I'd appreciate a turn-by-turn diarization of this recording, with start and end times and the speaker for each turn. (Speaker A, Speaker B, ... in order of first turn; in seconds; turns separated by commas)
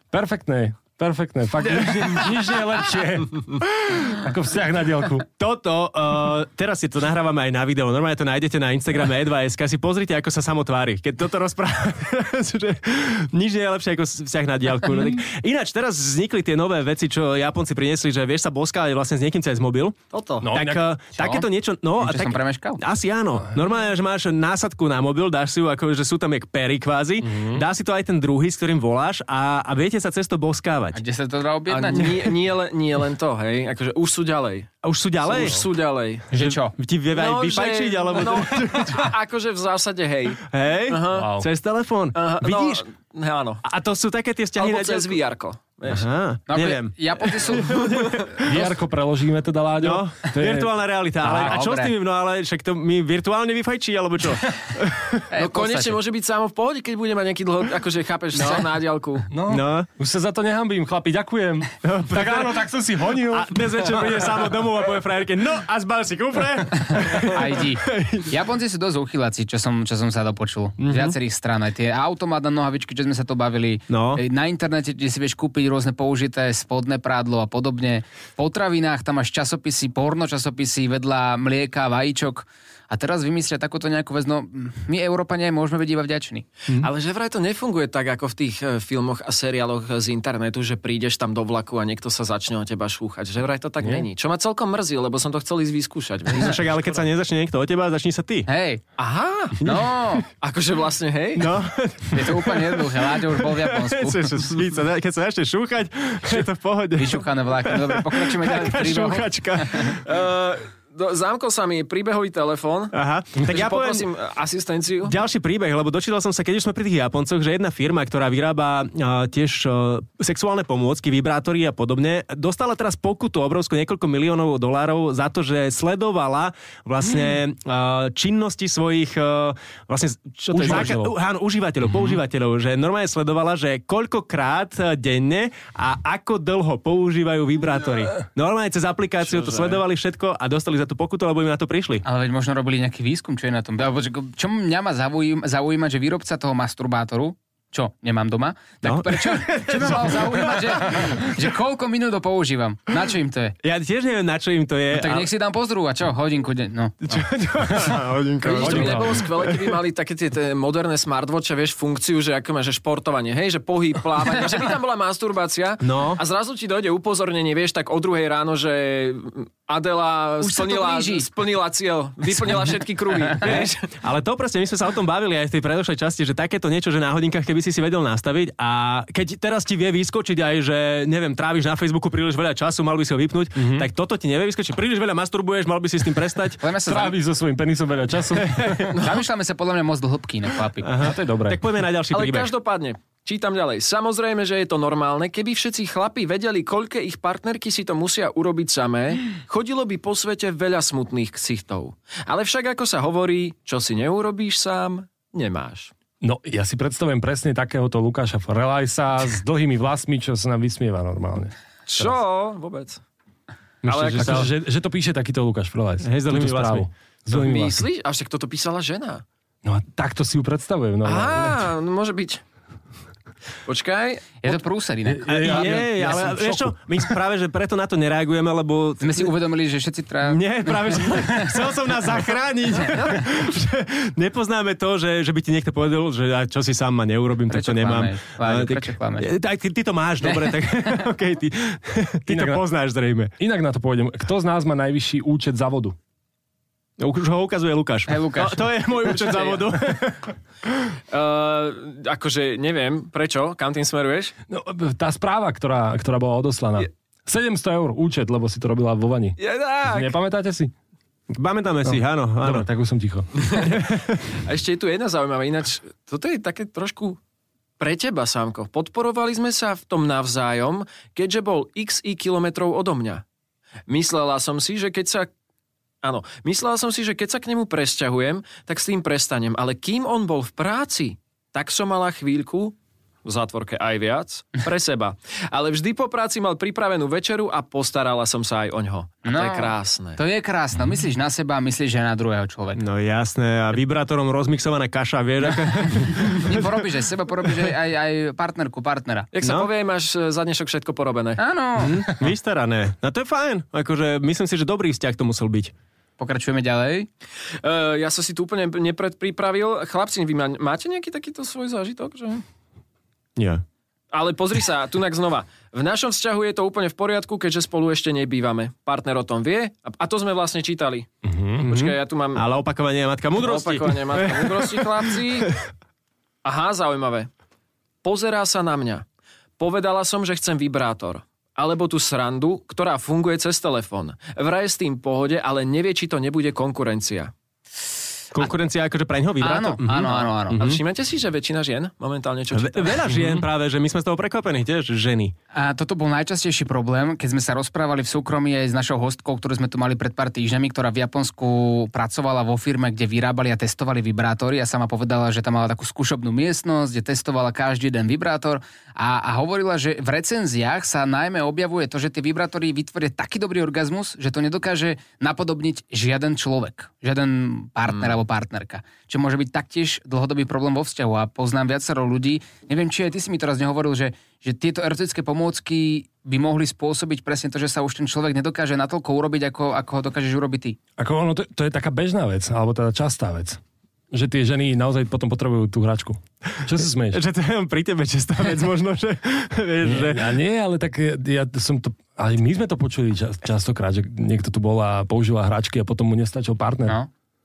Speaker A: 0.1-5.2, Speaker B: 1.7-2.4, Speaker B: 5.4-20.0, Speaker C: 20.1-20.5, Speaker A: 20.4-20.9, Speaker B: 20.5-31.0, Speaker D: 21.1-21.5, Speaker D: 22.0-22.8, Speaker A: 27.2-27.6, Speaker D: 30.9-32.3, Speaker C: 31.7-36.3, Speaker B: 34.8-35.6, Speaker D: 36.3-36.7, Speaker B: 36.3-39.1, Speaker C: 37.1-41.3, Speaker B: 40.5-42.8, Speaker A: 41.1-41.5, Speaker C: 42.1-43.6, Speaker B: 43.6-45.2, Speaker C: 44.5-46.0, Speaker B: 45.9-48.6, Speaker D: 46.5-47.9, Speaker A: 48.4-50.7, Speaker B: 49.8-55.2, Speaker D: 51.2-51.9, Speaker D: 55.3-56.0, Speaker C: 55.4-59.3, Speaker B: 58.4-58.6, Speaker A: 59.3-64.3, Speaker B: 59.5-59.9, Speaker B: 61.8-62.6, Speaker B: 63.3-68.3, Speaker D: 67.1-86.5, Speaker B: 70.8-71.1, Speaker B: 73.9-74.2, Speaker C: 86.8-97.1, Speaker A: 93.8-94.1, Speaker B: 96.3-98.5, Speaker D: 98.5-98.8, Speaker C: 99.0-99.6, Speaker D: 99.6-100.3, Speaker C: 100.4-101.5, Speaker B: 101.3-110.0, Speaker D: 102.1-104.3, Speaker D: 107.0-110.0, Speaker C: 110.0-115.2, Speaker B: 112.9-114.0, Speaker B: 115.0-142.0, Speaker A: 130.5-131.1, Speaker C: 139.2-139.8, Speaker D: 142.0-153.6, Speaker B: 148.8-151.3, Speaker B: 153.6-155.3, Speaker D: 154.9-157.2, Speaker B: 157.0-159.8, Speaker C: 158.4-173.9, Speaker A: 158.6-159.2, Speaker B: 165.8-166.2, Speaker D: 170.4-171.3, Speaker D: 173.2-173.7, Speaker B: 173.4-186.6, Speaker A: 183.5-183.9, Speaker D: 186.6-187.2, Speaker A: 186.8-188.9, Speaker B: 188.4-188.9, Speaker C: 188.9-189.2, Speaker D: 189.0-190.9, Speaker B: 190.8-192.5, Speaker A: 191.0-191.6, Speaker C: 192.1-205.9, Speaker A: 206.2-212.1, Speaker C: 211.9-213.0, Speaker B: 213.8-214.5, Speaker C: 213.8-214.5, Speaker A: 214.1-217.8, Speaker B: 216.0-216.9, Speaker C: 217.3-219.2, Speaker A: 219.6-221.7, Speaker C: 221.0-222.4, Speaker C: 223.7-224.4, Speaker D: 224.4-226.0, Speaker A: 225.1-226.8, Speaker B: 225.3-229.3, Speaker D: 229.0-231.7, Speaker B: 230.2-243.3, Speaker D: 237.5-239.3, Speaker D: 240.2-241.0, Speaker A: 242.3-242.6, Speaker A: 243.4-245.9, Speaker B: 247.0-250.3, Speaker D: 248.1-248.8, Speaker C: 249.1-249.6, Speaker C: 251.1-254.3, Speaker A: 254.5-259.4, Speaker C: 259.4-260.2, Speaker A: 259.9-260.7, Speaker B: 261.3-262.6, Speaker A: 261.8-263.5, Speaker C: 263.4-263.8, Speaker B: 263.7-264.2, Speaker C: 264.4-267.2, Speaker C: 267.8-273.2, Speaker C: 273.9-275.3, Speaker C: 276.0-290.2, Speaker D: 289.2-292.8, Speaker B: 292.8-296.7, Speaker D: 296.3-299.3, Speaker C: 299.3-301.4, Speaker B: 299.4-299.7, Speaker D: 301.4-302.2, Speaker B: 301.8-305.7, Speaker D: 306.2-307.1, Speaker C: 307.6-312.4, Speaker B: 313.4-313.6, Speaker C: 314.1-321.1, Speaker A: 321.2-321.7, Speaker C: 321.6-322.4, Speaker B: 321.6-325.5, Speaker C: 323.4-325.5, Speaker C: 326.4-327.3, Speaker C: 328.0-329.0, Speaker C: 329.6-337.3, Speaker B: 338.3-340.8, Speaker D: 339.4-340.6, Speaker C: 340.1-343.1, Speaker B: 342.5-345.3, Speaker A: 343.2-343.4, Speaker D: 345.5-380.8, Speaker C: 367.9-368.1, Speaker A: 381.0-387.2, Speaker B: 387.1-390.3, Speaker A: 389.8-396.9